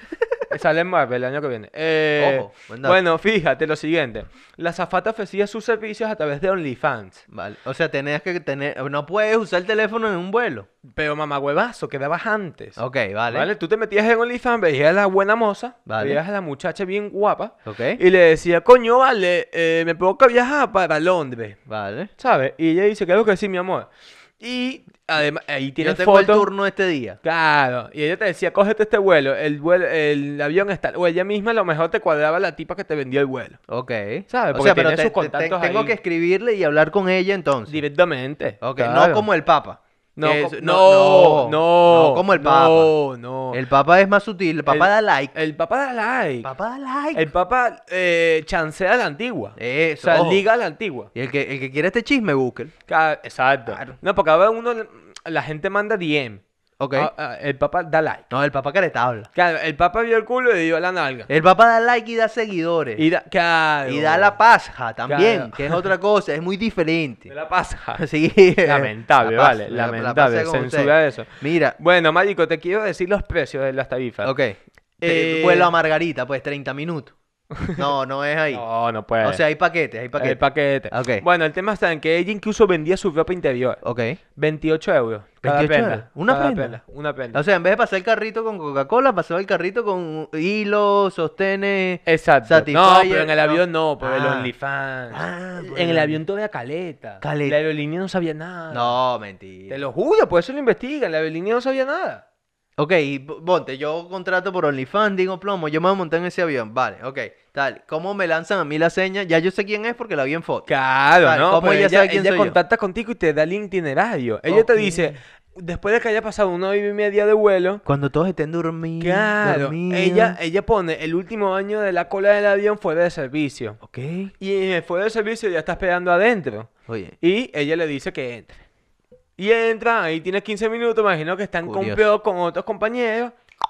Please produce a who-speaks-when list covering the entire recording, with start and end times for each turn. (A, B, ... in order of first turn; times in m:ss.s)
0:00.5-0:07.2 A
0:02.2-0:03.0 B
0:07.3-0:10.7 B
0:10.9-0:12.8 A
0:12.8-0:13.5 B
0:13.3-0:21.6 A
0:15.8-0:16.2 B
0:17.6-0:18.0 B
0:21.7-0:22.1 B
0:22.2-0:23.9 A
0:24.4-0:26.5 A
0:25.8-0:27.2 B
0:27.2-0:33.6 A
0:33.7-0:37.8 B
0:34.3-0:36.0 A
0:37.7-0:39.3 A
0:38.6-0:42.9 B
0:40.2-0:43.6 A
0:43.5-0:45.3 B
0:44.7-0:46.5 A
0:46.4-0:47.3 B
0:47.1-0:51.1 A
0:49.6-0:50.4 B
0:51.1-0:52.7 B
0:52.9-0:56.4 A
0:53.7-0:54.0 B
0:56.8-0:57.1 B
0:56.9-0:58.2 A
0:58.3-0:59.3 B
0:59.3-1:01.3 A
1:01.3-1:03.0 B
1:03.0-1:04.4 A
1:03.8-1:07.3 B
1:05.1-1:05.9 A
1:07.3-1:08.0 A
1:07.9-1:11.8 B
1:08.6-1:14.3 A
1:14.2-1:17.1 B
1:15.0-1:15.7 A
1:17.6-1:18.6 B
1:18.5-1:19.4 A
1:19.2-1:21.2 B
1:20.2-1:23.8 A
1:23.8-1:24.2 B
1:24.4-1:27.4 A
1:25.4-1:26.8 B
1:27.3-1:34.5 B
1:32.0-1:38.9 A
1:35.1-1:36.2 B
1:37.2-1:37.6 B
1:38.7-1:39.8 B
1:39.7-1:42.2 A
1:42.8-1:52.6 B
1:50.7-1:57.8 A
1:54.5-1:55.2 B
1:57.8-2:00.4 B
1:59.0-2:03.8 A
2:03.8-2:04.3 B
2:04.4-2:08.6 A
2:06.9-2:07.2 B
2:09.4-2:13.4 A
2:11.6-2:12.0 B